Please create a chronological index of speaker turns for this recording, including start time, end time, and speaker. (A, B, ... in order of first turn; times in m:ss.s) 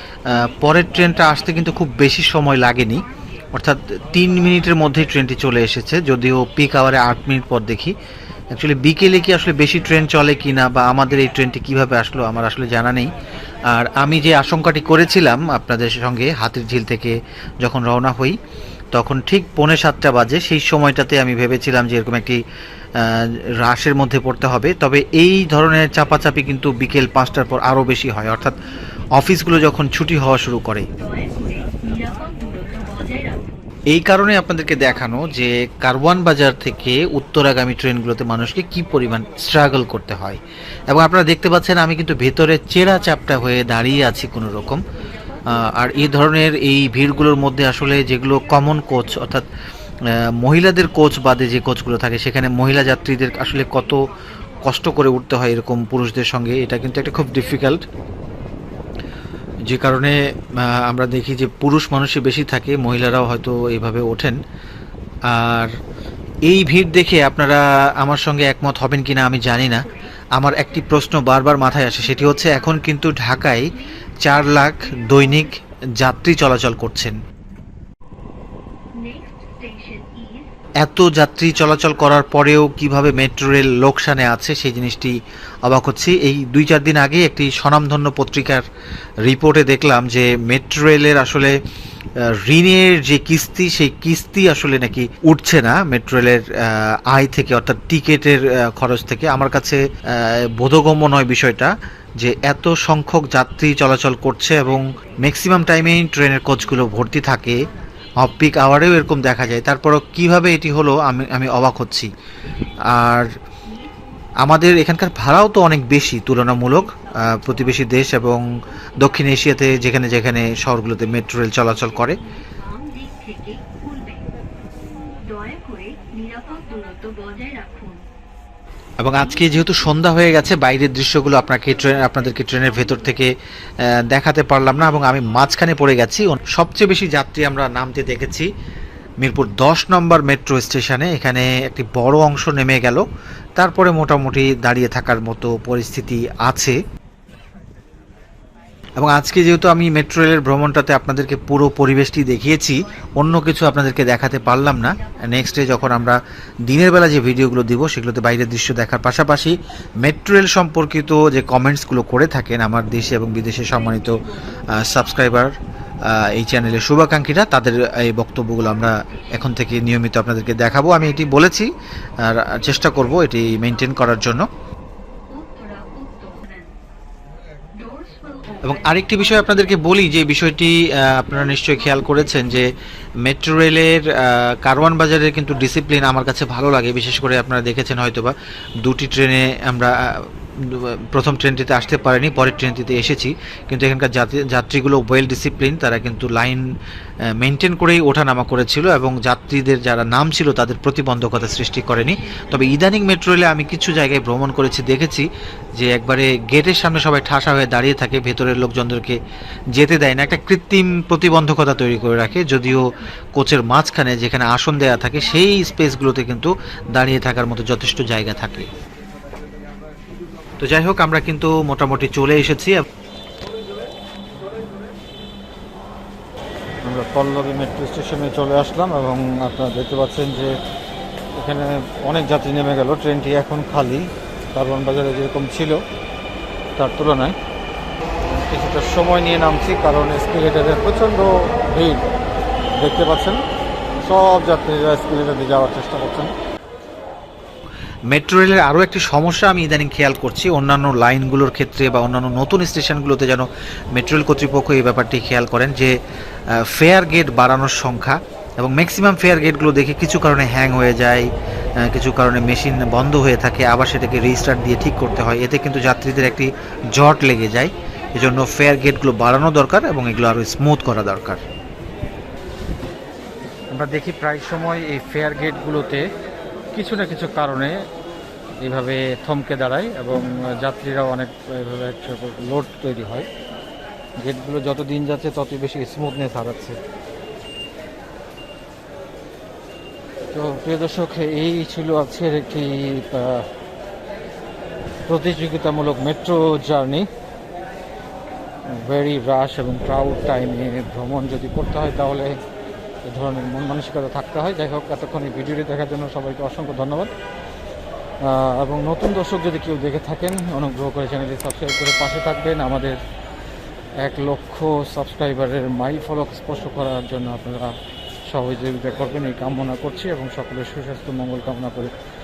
0:00.3-0:07.9 A
0:08.5-0:13.1 A
0:13.6-0:18.4 A
0:18.9-0:22.4 A
0:23.0-0:28.6 A
0:29.1-0:30.9 A
0:31.2-0:33.4 B
0:33.9-0:44.8 A
0:45.5-0:49.4 A
0:50.1-0:54.1 A
0:54.6-0:57.8 A
0:59.6-1:04.4 A
1:05.2-1:05.7 A
1:06.4-1:17.2 A
1:19.0-1:20.4 B
1:20.8-1:28.6 A
1:29.2-1:31.6 A
1:32.2-1:47.6 A
1:48.2-1:52.1 A
1:52.8-1:53.3 A
1:54.4-1:58.4 A
1:59.0-2:02.2 A
2:02.5-2:04.2 B
2:05.3-2:08.0 B
2:09.0-2:13.3 A
2:13.8-2:18.5 A
2:19.2-2:23.0 A
2:23.6-2:26.8 A
2:29.0-2:45.5 A
2:46.0-2:51.7 A
2:52.2-2:54.5 A
2:55.4-2:56.6 B
2:57.8-2:58.6 B
2:58.6-3:02.7 A
3:03.2-3:16.6 A
3:17.3-3:29.2 A
3:29.7-3:38.7 A
3:40.6-3:42.8 A
3:46.8-3:50.6 C
3:51.3-3:55.8 C
3:56.8-3:57.4 C
3:58.2-4:02.0 C
4:02.8-4:03.4 C
4:04.0-4:06.3 C
4:08.1-4:15.9 A
4:16.5-4:21.3 A
4:21.8-4:31.4 A
4:33.7-4:36.1 C
4:36.7-4:37.8 C
4:38.6-4:43.3 C
4:44.2-4:46.8 C
4:50.3-4:53.5 C
4:55.1-4:57.1 C
4:58.7-5:02.4 C
5:03.0-5:07.1 C
5:08.2-5:13.0 C
5:14.0-5:21.9 C